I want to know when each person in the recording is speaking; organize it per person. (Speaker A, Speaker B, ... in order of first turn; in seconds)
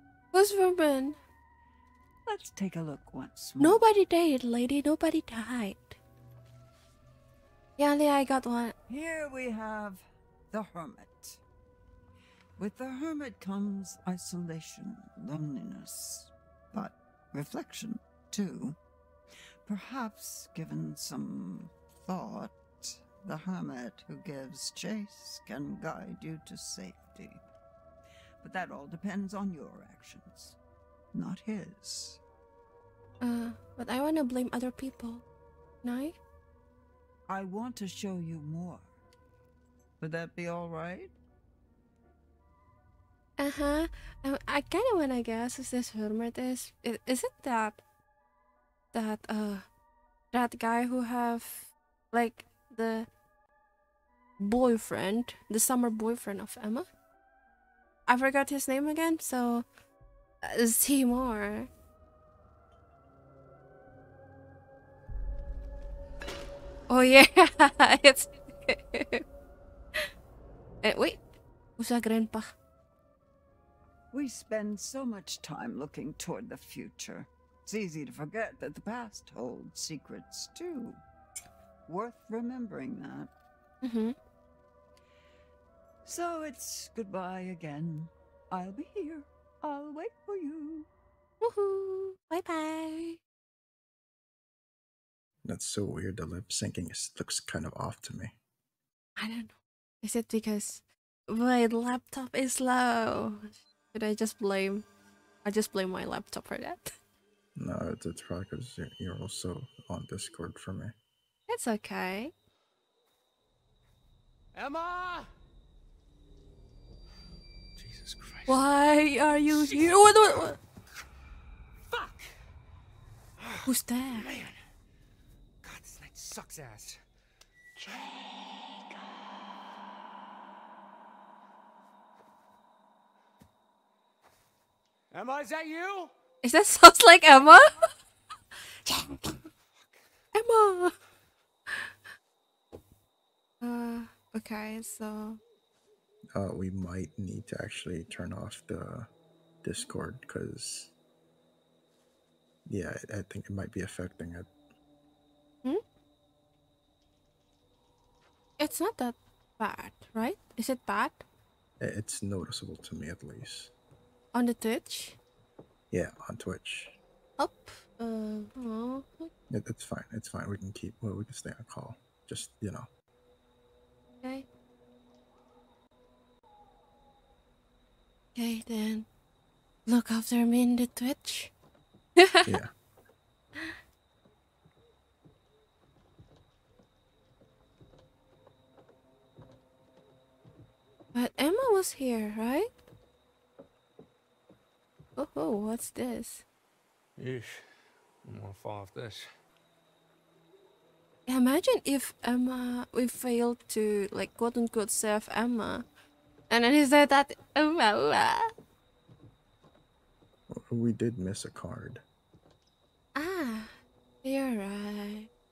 Speaker A: 0.3-1.2, 3.6-6.0, 7.8-8.8, 33.2-35.2, 35.8-36.2, 43.4-47.8, 48.9-49.7, 50.3-53.1, 54.4-56.9, 58.1-59.7, 60.4-61.7, 66.9-69.2, 70.8-71.2, 71.8-72.5, 83.8-84.2, 91.4-93.2, 99.2-104.8, 105.5-106.9, 111.5-112.3, 118.5-120.6, 123.7-124.3, 136.4-137.9, 138.9-139.4, 140.3-140.9, 143.6-145.4, 158.6-161.2, 164.3-165.2, 167.4-169.3, 178.3-179.1, 179.9-181.5, 182.2-182.5, 191.1-192.8, 195.2-196.4, 201.3-205.9, 206.5-208.5, 213.2-215.3
Speaker B: 2.3-3.8, 8.9-11.4, 12.6-18.8, 19.6-27.5, 28.4-30.6, 31.1-32.2, 37.3-38.9, 40.0-41.1, 74.1-81.0, 81.9-83.3, 86.0-90.9
Speaker C: 95.4-98.3, 107.6-111.0, 146.3-149.1, 149.6-150.9, 152.7-154.5, 161.8-163.7, 165.9-167.0, 169.5-172.9, 182.5-182.7, 210.5-212.0
Speaker D: 114.5-115.3, 117.8-118.5, 119.6-120.0, 121.9-122.3, 124.1-124.5, 125.6-127.0, 135.1-136.1, 197.2-199.2